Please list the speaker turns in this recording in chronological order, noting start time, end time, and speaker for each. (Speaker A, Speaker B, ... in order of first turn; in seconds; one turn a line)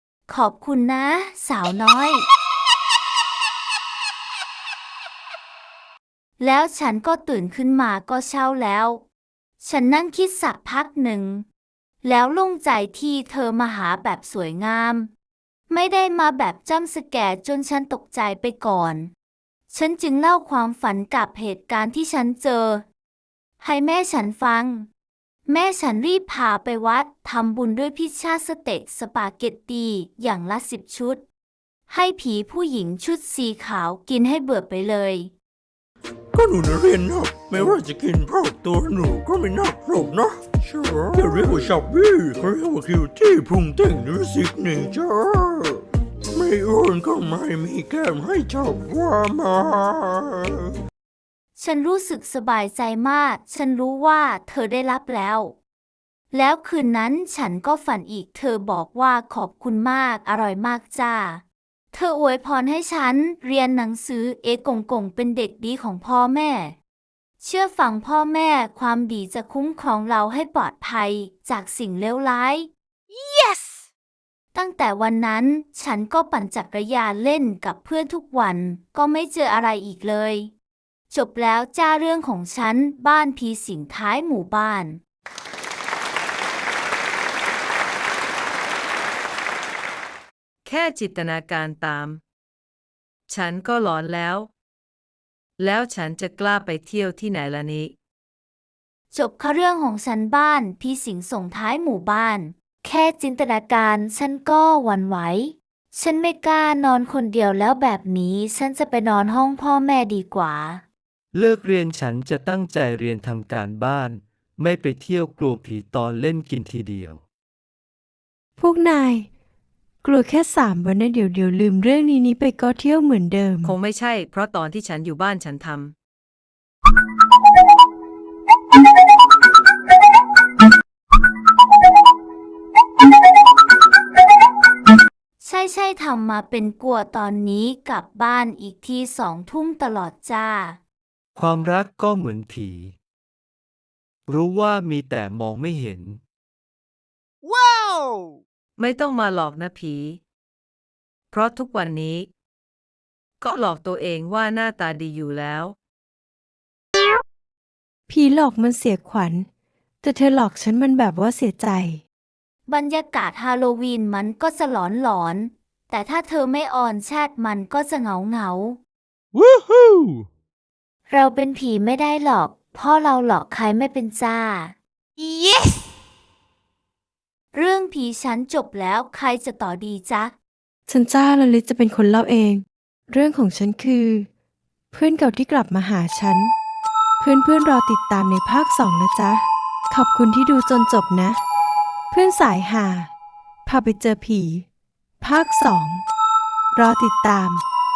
Speaker A: 0.3-2.3
Speaker A: 6.4-9.0
Speaker A: 9.6-11.4
Speaker A: 12.0-15.1
Speaker A: 15.7-19.1
Speaker A: 19.7-22.9
Speaker A: 23.6-24.9
Speaker A: 25.5-31.2
Speaker A: 31.9-35.3
Speaker B: 36.3-50.8
Speaker A: 51.6-55.6
Speaker A: 56.3-66.8
Speaker A: 67.4-72.7
Speaker A: 74.5-80.5
Speaker A: 81.1-85.0
Speaker C: 90.7-92.2
Speaker C: 93.3-94.5
Speaker C: 95.6-97.9
Speaker A: 99.1-110.8
Speaker D: 111.3-117.2
Speaker E: 118.6-119.3
Speaker E: 120.0-123.8
Speaker C: 123.6-125.9
Speaker A: 135.4-140.8
Speaker D: 141.3-142.9
Speaker D: 144.3-146.2
Speaker C: 148.8-150.2
Speaker C: 151.3-152.3
Speaker C: 153.4-155.8
Speaker E: 158.1-159.5
Speaker E: 160.0-162.0
Speaker A: 162.7-168.8
Speaker B: 169.3-170.3
Speaker A: 171.1-174.8
Speaker A: 177.5-180.3
Speaker E: 180.9-184.3
Speaker E: 184.9-186.5
Speaker E: 187.2-191.4
Speaker E: 192.1-193.1
Speaker E: 193.7-194.7
Speaker E: 195.2-196.0
Speaker E: 196.7-197.6